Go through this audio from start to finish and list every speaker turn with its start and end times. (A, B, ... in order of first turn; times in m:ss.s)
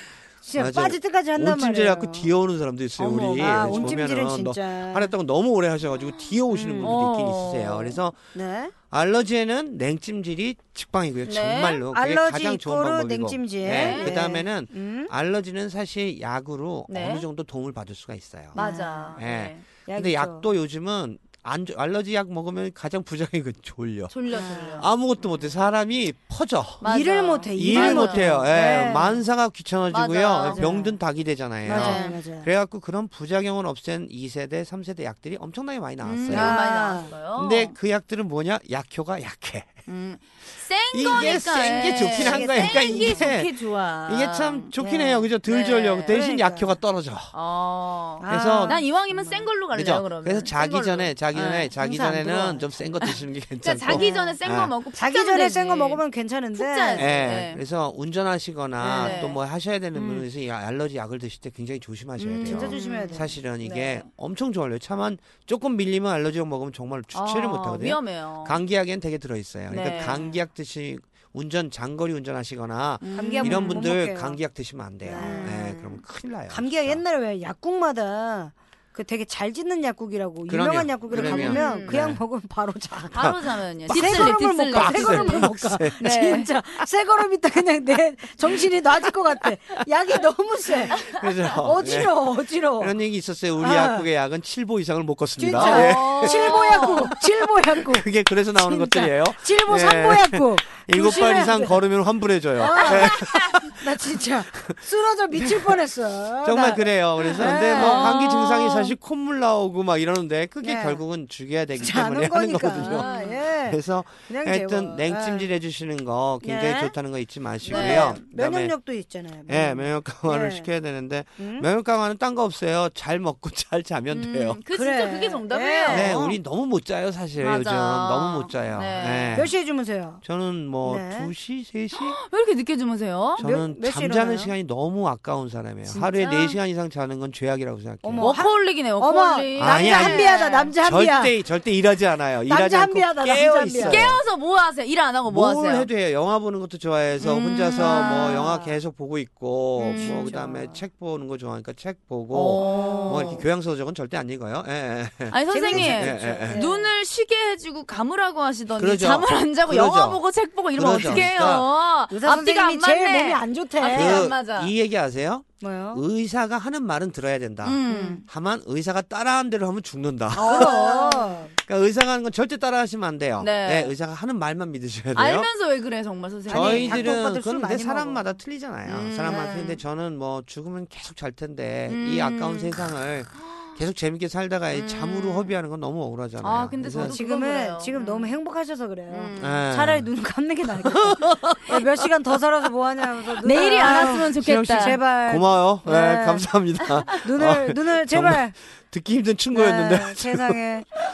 0:00.4-0:02.3 A
0:00.5-0:08.2 B
0:03.0-0:05.1 A
0:03.4-0:03.7 C
0:06.5-0:07.0 A
0:06.8-0:08.0 C
0:08.3-0:08.7 A
0:08.9-0:18.6 B
0:11.2-0:11.8 C
0:11.9-0:15.1 A
0:13.7-0:14.1 C
0:16.9-0:17.2 C
0:18.5-0:19.6 C
0:18.5-0:19.2 A
0:19.2-0:24.2 B
0:19.9-0:20.5 A
0:24.1-0:25.5 C
0:24.3-0:24.9 A
0:24.8-0:26.8 B
0:26.8-0:28.4 C
0:26.8-0:29.2 A
0:27.6-0:36.6 B
0:29.9-0:30.9 C
0:30.5-0:31.0 A
0:31.6-0:32.5 A
0:31.7-0:32.2 C
0:36.0-0:37.7 C
0:36.3-0:37.1 A
0:37.4-0:39.8 B
0:39.9-0:44.7 C
0:40.9-0:47.4 B
0:42.1-0:43.4 A
0:44.8-0:45.3 A
0:45.4-0:46.2 C
0:46.1-0:46.8 A
0:47.3-0:51.7 C
0:48.2-0:49.5 A
0:48.2-0:48.9 B
0:49.7-0:54.7 B
0:51.8-0:52.9 A
0:53.6-0:57.6 C
0:53.9-0:54.4 A
0:55.0-0:57.4 A
0:57.0-1:17.0 B
0:58.8-0:59.2 A
0:58.9-0:59.4 C
0:59.9-1:00.2 C
1:02.2-1:04.1 C
1:02.4-1:03.3 A
1:07.1-1:08.6 C
1:09.7-1:10.4 C
1:13.0-1:13.9 C
1:13.1-1:14.4 A
1:15.0-1:15.7 A
1:15.1-1:16.0 C
1:16.5-1:23.3 A
1:20.5-1:22.2 B
1:21.1-1:22.0 C
1:23.1-1:26.5 C
1:23.2-1:26.1 B
1:23.9-1:33.0 A
1:28.4-1:28.8 B
1:30.9-1:44.7 B
1:33.6-1:34.1 A
1:35.4-1:41.8 A
1:35.5-1:37.1 C
1:42.6-1:48.2 A
1:42.8-1:43.4 C
1:45.3-1:45.8 B
1:46.4-1:58.8 B
1:47.3-1:49.0 C
1:50.6-1:51.0 A
1:51.8-1:55.5 A
1:52.8-1:53.4 C
1:56.4-1:57.0 A
1:57.6-2:00.7 A
1:57.7-1:58.2 C
1:59.5-2:04.6 B
2:01.4-2:01.7 A
2:04.1-2:06.4 C
2:04.7-2:06.2 A
2:05.9-2:09.5 B
2:07.4-2:09.5 C
2:09.3-2:10.2 A
2:10.2-2:12.2 B
2:10.8-2:11.3 A
2:12.0-2:13.4 C
2:13.3-2:18.4 B
2:13.4-2:14.5 A
2:15.9-2:16.6 C
2:18.0-2:21.4 A
2:18.2-2:20.8 C
2:19.6-2:24.2 B
2:22.5-2:24.1 A
2:23.8-2:25.9 C
2:25.3-2:36.6 B
2:27.2-2:28.5 C
2:27.8-2:28.8 A
2:29.8-2:30.4 C
2:30.0-2:30.8 A
2:32.3-2:33.5 C
2:32.5-2:33.4 A
2:35.3-2:44.7 C
2:35.5-2:36.9 A
2:38.7-2:41.7 B
2:41.0-2:44.3 A
2:43.9-2:55.5 B
2:45.6-2:46.1 A
2:47.6-2:48.2 C
2:47.9-2:48.2 A
2:50.3-2:51.5 A
2:50.4-2:51.4 C
2:53.4-2:54.0 C
2:55.1-2:57.1 C
2:56.5-2:58.3 A
2:56.5-3:07.2 B
2:58.8-2:59.5 C
2:59.2-2:59.8 A
3:01.9-3:02.8 C
3:04.7-3:05.6 C
3:06.4-3:08.4 C
3:07.0-3:16.5 A
3:09.1-3:09.6 C
3:09.4-3:10.1 B
3:10.8-3:11.8 B
3:13.4-3:15.0 C
3:13.8-3:20.6 B
3:17.2-3:18.5 A
3:19.5-3:20.9 A